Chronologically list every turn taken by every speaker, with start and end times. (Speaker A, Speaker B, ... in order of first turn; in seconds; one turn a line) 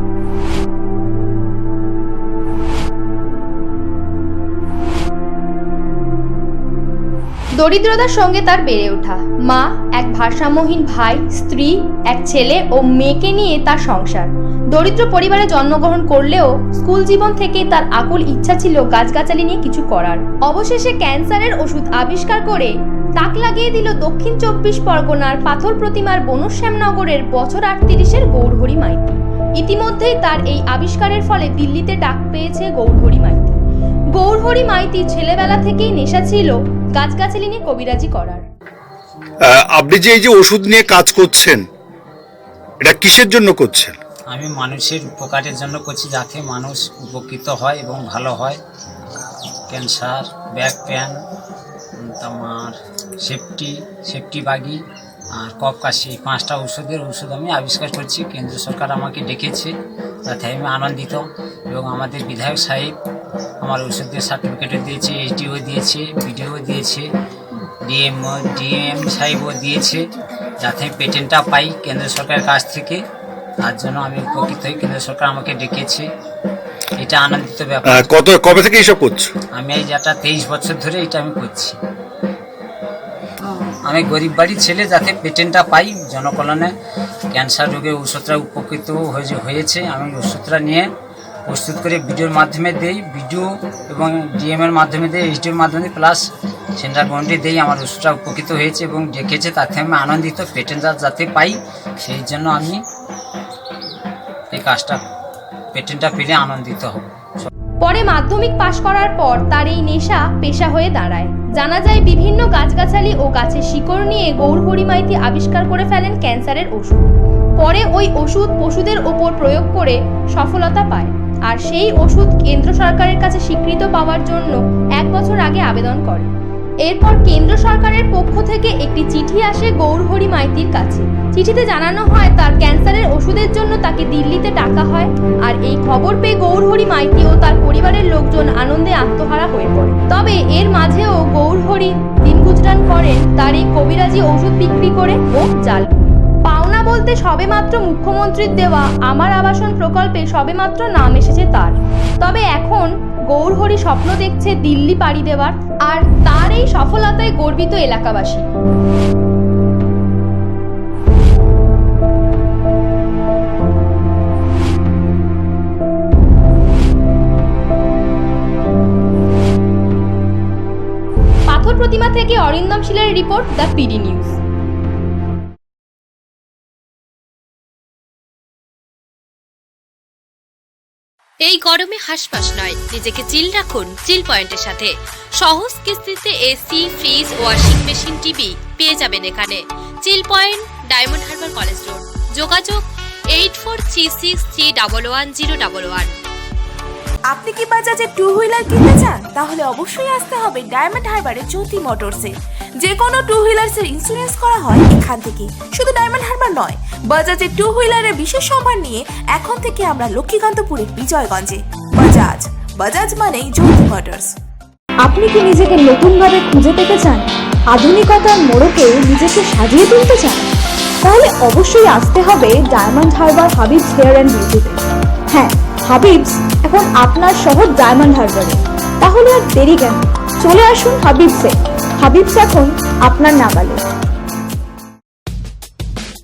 Speaker A: 7.6-33.6
Speaker A: 34.1-38.4
Speaker B: 39.5-41.7
Speaker B: 42.8-44.0
Speaker C: 44.3-48.6
Speaker C: 49.7-51.2
Speaker C: 52.0-54.8
Speaker C: 55.3-59.7
Speaker C: 60.3-63.0
Speaker C: 63.6-67.1
Speaker C: 67.9-70.0
Speaker C: 70.6-73.0
Speaker C: 73.6-76.1
Speaker C: 77.0-78.1
Speaker B: 77.9-79.3
Speaker C: 79.5-81.8
Speaker C: 83.9-86.7
Speaker C: 87.3-90.9
Speaker C: 91.5-96.2
Speaker C: 96.8-102.8
Speaker C: 104.5-105.0
Speaker C: 105.7-107.5
Speaker A: 107.8-126.3
Speaker A: 126.8-158.4
Speaker A: 171.5-174.4
Speaker D: 181.4-196.1
Speaker E: 197.3-214.3
Speaker F: 215.0-220.5
Speaker F: 221.0-233.8